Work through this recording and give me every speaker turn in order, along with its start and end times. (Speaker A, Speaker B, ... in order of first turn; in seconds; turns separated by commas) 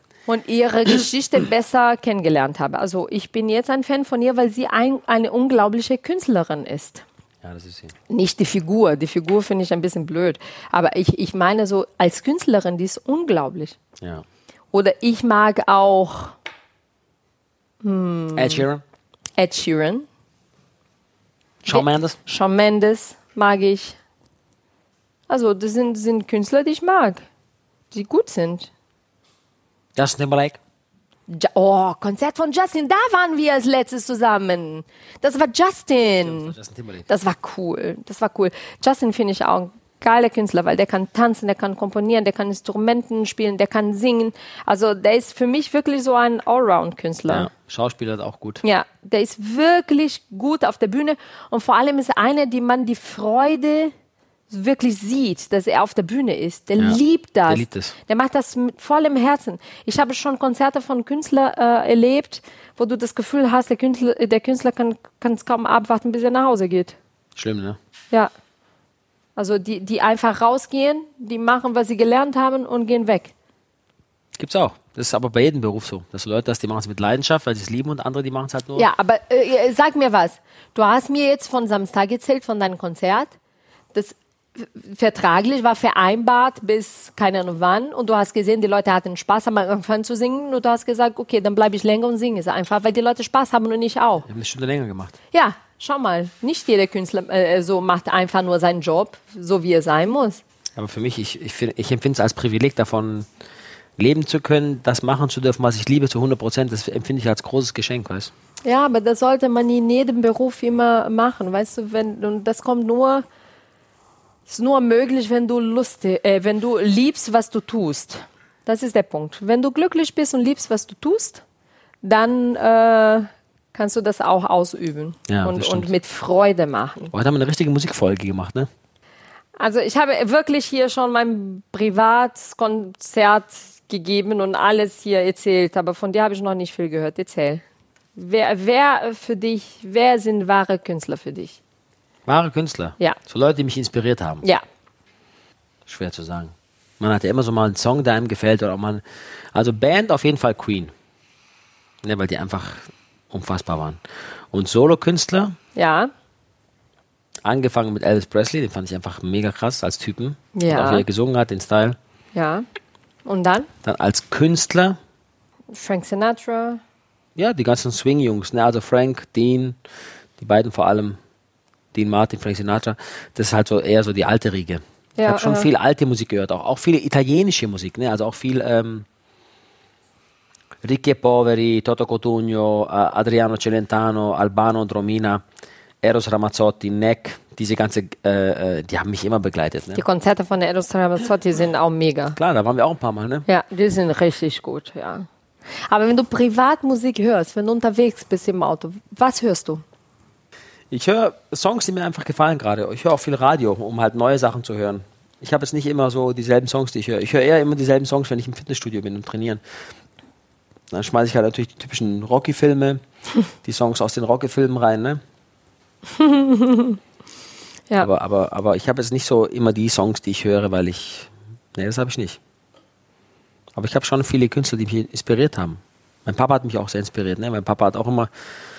Speaker A: 0.3-7.0, Speaker B: 7.4-7.9, Speaker A: 8.1-13.8, Speaker B: 14.0-14.2, Speaker A: 14.7-16.4, Speaker A: 17.8-18.7, Speaker B: 18.4-18.8, Speaker A: 19.4-20.1, Speaker B: 21.6-22.2, Speaker A: 21.7-24.0, Speaker A: 25.3-27.3, Speaker A: 27.9-28.7, Speaker B: 30.0-30.6, Speaker A: 31.3-36.5, Speaker B: 36.2-37.1, Speaker A: 37.1-47.5, Speaker B: 47.3-48.6, Speaker A: 48.6-53.9, Speaker A: 54.5-67.0, Speaker B: 56.8-58.0, Speaker B: 67.4-67.8, Speaker A: 69.4-73.3, Speaker B: 74.4-78.9, Speaker A: 78.8-83.3, Speaker A: 83.9-94.3, Speaker B: 94.3-95.2, Speaker A: 95.3-100.4, Speaker B: 100.8-103.3, Speaker B: 104.0-108.3, Speaker A: 108.7-113.2, Speaker A: 114.5-121.4, Speaker A: 122.0-127.1, Speaker B: 125.3-125.9, Speaker B: 127.1-128.7, Speaker A: 129.6-137.6, Speaker A: 138.2-141.6, Speaker B: 142.3-144.4, Speaker B: 145.9-149.0, Speaker B: 149.5-150.9, Speaker B: 152.0-154.0, Speaker B: 154.5-155.6, Speaker A: 155.8-156.1, Speaker B: 157.4-162.0, Speaker A: 160.5-161.1, Speaker A: 162.3-162.7, Speaker A: 163.3-163.7, Speaker B: 163.8-165.0, Speaker A: 165.7-166.8, Speaker B: 167.4-169.8, Speaker B: 170.4-171.2, Speaker B: 171.9-179.1, Speaker A: 175.2-175.7, Speaker B: 180.8-185.4, Speaker B: 186.0-190.0, Speaker A: 189.9-192.4, Speaker B: 192.3-193.5, Speaker A: 193.5-195.3, Speaker A: 195.9-199.8, Speaker B: 200.9-209.6, Speaker B: 210.9-213.0, Speaker B: 213.6-215.2, Speaker A: 216.1-217.0, Speaker B: 218.0-222.4, Speaker B: 223.8-228.3